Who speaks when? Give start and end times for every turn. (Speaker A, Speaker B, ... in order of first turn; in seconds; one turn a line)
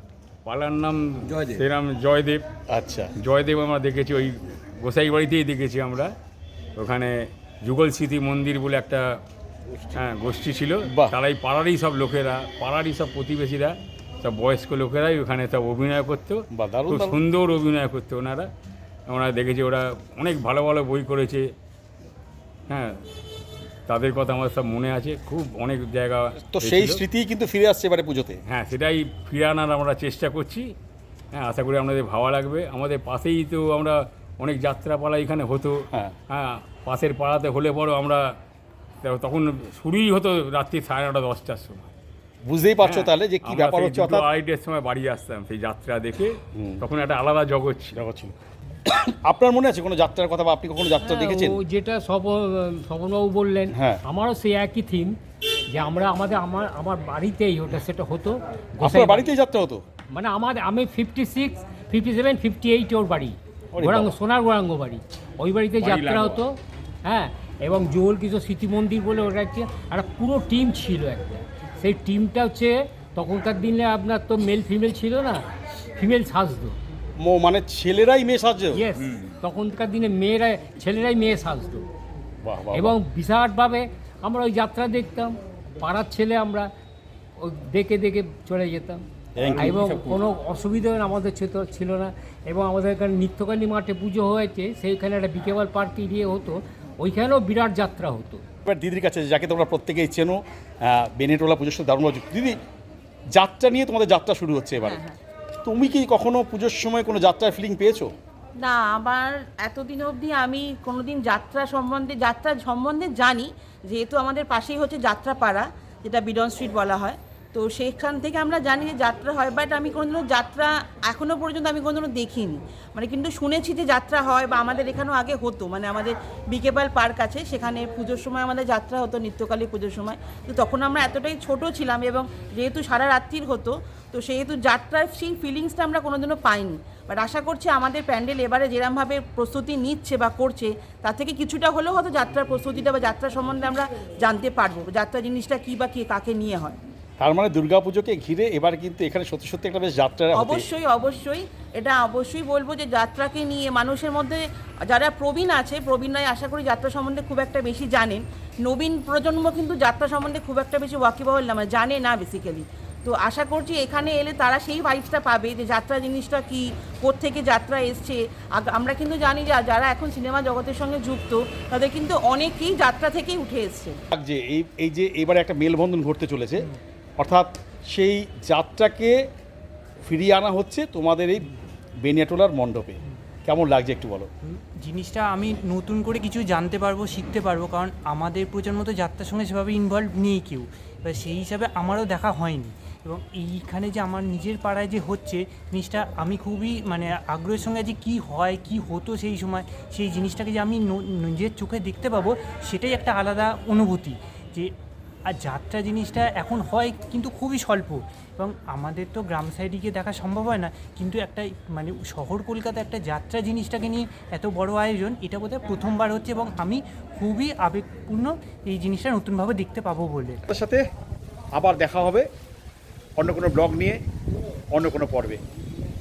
Speaker A: 0.4-2.4
Speaker B: 2.7-3.1
Speaker A: 3.2-6.1
Speaker A: 6.8-9.0
Speaker A: 9.9-18.5
Speaker B: 10.9-11.1
Speaker B: 16.5-17.2
Speaker A: 19.1-21.4
Speaker A: 22.7-22.9
Speaker A: 23.9-27.0
Speaker B: 26.5-28.4
Speaker A: 28.5-30.7
Speaker A: 31.3-35.8
Speaker A: 36.3-38.2
Speaker A: 39.0-41.9
Speaker B: 42.4-44.3
Speaker A: 42.8-48.0
Speaker B: 46.5-46.8
Speaker B: 47.9-51.6
Speaker C: 51.0-55.2
Speaker B: 53.7-54.0
Speaker C: 55.7-59.3
Speaker B: 58.8-59.8
Speaker C: 60.1-75.4
Speaker B: 63.7-64.2
Speaker A: 65.8-66.4
Speaker C: 76.0-76.8
Speaker B: 77.2-78.8
Speaker C: 78.7-81.8
Speaker B: 82.4-83.0
Speaker C: 82.7-86.7
Speaker C: 87.4-98.4
Speaker B: 89.3-90.2
Speaker B: 98.7-102.6
Speaker B: 103.3-105.0
Speaker D: 104.8-105.2
Speaker B: 105.6-108.1
Speaker D: 108.5-146.8
Speaker B: 147.2-150.7
Speaker D: 150.3-174.0
Speaker B: 174.1-179.2
Speaker B: 180.0-184.3
Speaker E: 184.5-204.7
Speaker E: 205.3-220.4
Speaker B: 220.4-220.8
Speaker B: 221.5-222.3
Speaker B: 223.2-224.0
Speaker B: 224.7-225.4